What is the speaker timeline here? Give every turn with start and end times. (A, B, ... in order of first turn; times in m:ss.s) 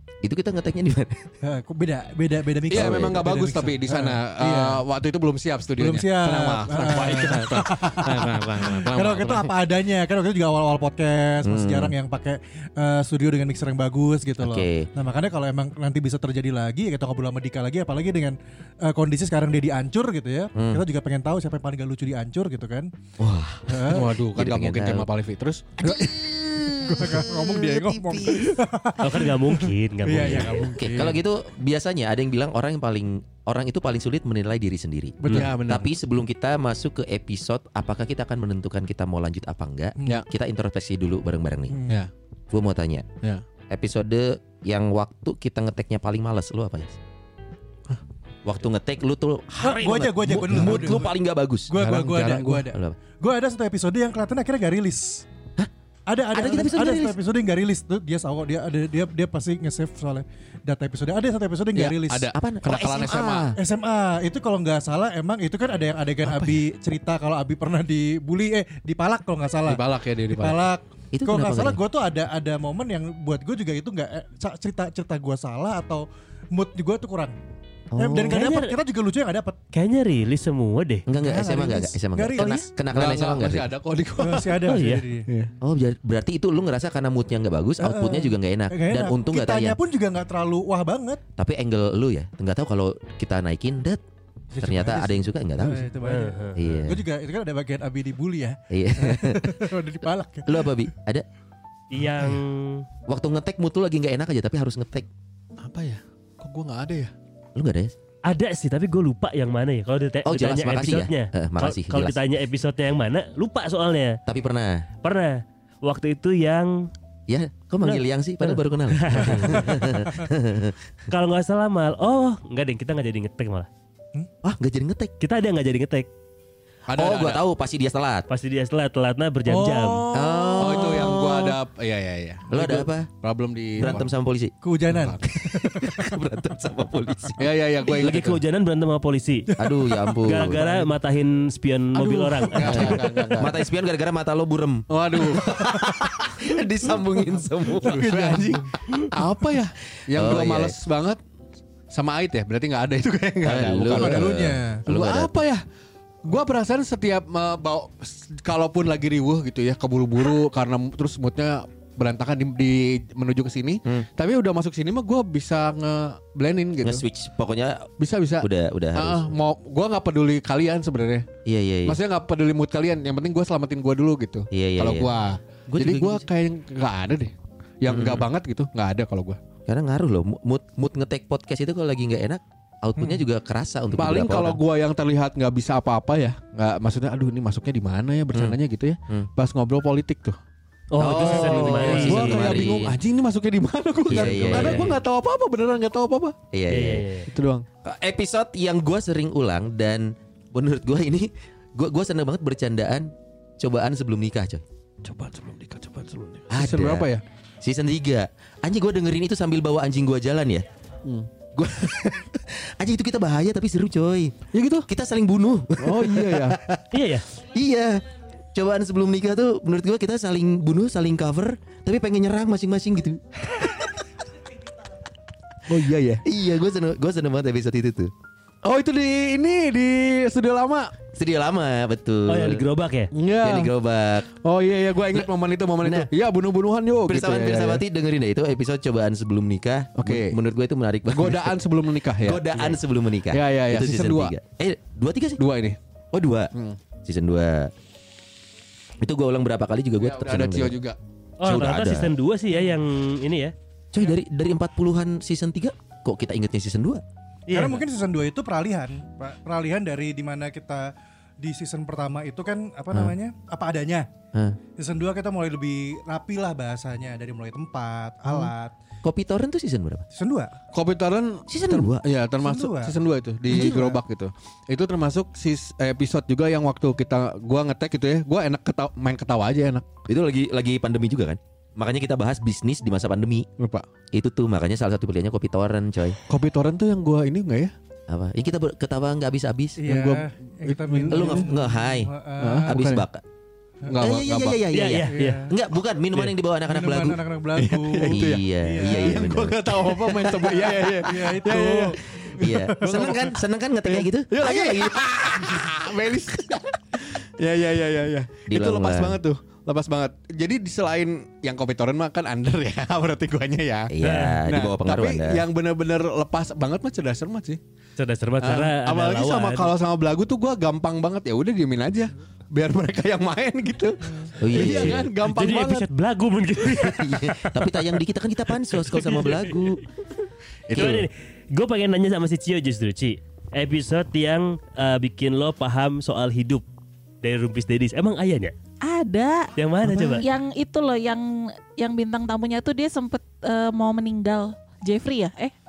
0:00.2-0:01.3 A
0:01.4-0:04.8 B
0:02.7-0:09.6 C
0:02.7-0:03.2 A
0:05.8-0:22.9 B
0:11.4-0:11.9 A
0:14.4-0:14.9 A
0:20.6-0:20.8 A
0:23.2-0:25.1 A
0:23.7-0:24.1 B
0:23.7-0:25.9 C
0:25.8-0:28.6 A
0:25.8-0:31.2 B
0:29.0-0:30.8 D
0:30.2-0:41.9 A
0:35.2-0:35.9 C
0:41.7-0:42.0 B
0:42.5-0:43.1 A
0:43.7-0:47.0 A
0:48.4-0:51.7 A
0:49.6-0:51.2 B
0:50.5-0:50.8 C
0:51.7-0:55.3 B
0:51.8-0:52.7 C
0:56.1-1:02.3 B
0:56.3-0:57.2 A
1:01.8-1:03.5 C
1:02.3-1:03.6 A
1:03.6-1:17.4 B
1:06.2-1:06.6 C
1:09.7-1:10.6 C
1:11.1-1:11.8 A
1:17.9-1:18.5 A
1:18.0-1:19.6 B
1:18.3-1:18.8 D
1:19.7-1:21.0 D
1:21.1-1:23.7 A
1:21.1-1:22.7 B
1:22.9-1:24.7 C
1:24.2-1:25.3 B
1:24.7-1:25.0 D
1:25.3-1:25.5 C
1:25.6-1:29.8 A
1:27.8-1:31.2 B
1:31.4-1:34.0 A
1:34.5-1:40.7 B
1:34.6-1:35.9 A
1:36.0-1:36.6 D
1:36.6-1:37.0 A
1:38.7-1:39.7 A
1:40.5-1:41.3 A
1:41.9-1:42.8 D
1:43.1-1:45.1 A
1:45.6-1:47.1 C
1:47.6-1:47.9 A
1:48.3-1:54.2 D
1:50.3-1:52.2 A
1:54.3-1:54.9 A
1:55.0-1:56.9 D
1:57.3-2:00.8 A
1:57.8-1:59.9 D
2:01.1-2:03.7 D
2:04.4-2:05.1 A
2:05.2-2:06.1 D
2:06.9-2:07.4 C
2:07.0-2:08.3 A
2:08.3-2:10.1 D
2:09.5-2:10.5 B
2:10.1-2:11.6 A
2:10.5-2:14.1 C
2:12.5-2:13.1 A
2:13.8-2:14.5 A
2:14.6-2:16.1 B
2:14.9-2:15.2 C
2:15.3-2:17.5 A
2:17.4-2:18.4 C
2:17.9-2:19.5 D
2:19.6-2:20.6 A
2:20.2-2:23.0 D
2:20.4-2:20.9 C
2:21.9-2:23.6 C
2:22.6-2:28.3 A
2:24.9-2:25.8 C
2:27.8-2:31.2 C
2:27.8-2:28.7 B
2:30.1-2:30.7 A
2:31.9-2:35.6 C
2:33.4-2:35.4 A
2:33.9-2:34.8 B
2:36.2-2:47.0 C
2:46.8-2:49.3 A
2:48.0-2:51.3 C
2:51.4-2:52.0 A
2:51.8-2:59.4 C
2:54.5-2:55.1 A
2:55.7-2:56.3 A
2:57.9-2:58.3 A
2:59.7-3:04.6 A
3:03.9-3:10.4 C
3:10.9-3:12.7 D
3:11.0-3:13.0 A
3:11.0-3:16.4 C
3:14.1-3:15.0 A
3:14.2-3:14.9 D
3:16.5-3:17.0 A
3:16.7-3:17.3 D
3:17.3-3:17.7 C
3:17.8-3:24.6 A
3:25.0-3:27.2 C
3:26.5-3:27.1 A
3:27.6-3:30.6 A
3:31.5-3:34.4 A
3:34.5-3:34.9 C
3:34.9-3:36.9 A
3:35.8-3:36.6 C
3:36.9-3:37.3 D
3:37.4-3:38.0 A
3:38.6-3:44.0 A
3:45.7-3:46.2 C
3:46.2-3:48.1 A
3:48.6-3:50.9 C
3:51.1-3:52.6 A
3:52.3-3:53.1 D
3:53.1-3:53.7 C
3:53.4-3:54.3 A
3:54.3-3:57.8 C
3:55.8-3:56.1 A
3:57.1-4:01.6 A
4:00.0-4:00.4 C
4:01.1-4:02.6 C
4:02.2-4:05.4 A
4:03.3-4:04.3 C
4:05.4-4:05.8 C
4:06.1-4:06.5 A
4:06.5-4:06.8 C
4:07.0-4:07.7 A
4:09.0-4:10.8 A
4:10.0-4:11.0 C
4:11.4-4:13.5 D
4:11.4-4:12.1 A
4:13.9-4:17.0 A
4:17.5-4:17.8 D
4:17.5-4:24.1 B
4:24.8-4:28.8 B
4:29.0-4:30.0 A
4:30.1-4:30.6 B
4:30.7-4:39.9 C
4:31.5-4:32.0 A
4:32.4-4:33.0 B
4:33.5-4:34.0 A
4:40.1-4:43.5 A
4:43.6-4:43.9 C
4:44.1-4:46.2 A
4:46.3-4:47.7 C
4:48.1-4:49.8 A
4:49.8-4:52.7 B
4:49.8-4:51.5 C
4:51.1-4:52.1 A
4:52.4-4:53.0 C
4:52.6-4:53.2 A
4:53.9-4:54.6 C
4:54.0-4:57.2 A
4:54.7-4:55.5 D
4:55.1-4:55.5 B
4:56.7-4:59.1 B
4:57.6-5:17.6 C
4:58.1-5:01.1 A
5:01.0-5:03.1 B
5:02.2-5:05.6 A
5:08.5-5:09.2 A
5:13.9-5:15.4 A
5:14.0-5:14.4 D
5:18.0-5:19.7 D
5:18.4-5:25.9 C
5:24.4-5:25.1 A
5:24.6-5:27.6 D
5:26.7-5:29.8 A
5:28.7-5:29.6 D
5:30.7-5:31.1 A
5:30.7-5:36.7 D
5:37.2-5:38.5 D
5:38.8-5:45.5 E
5:39.6-5:40.3 D
5:39.8-5:40.2 C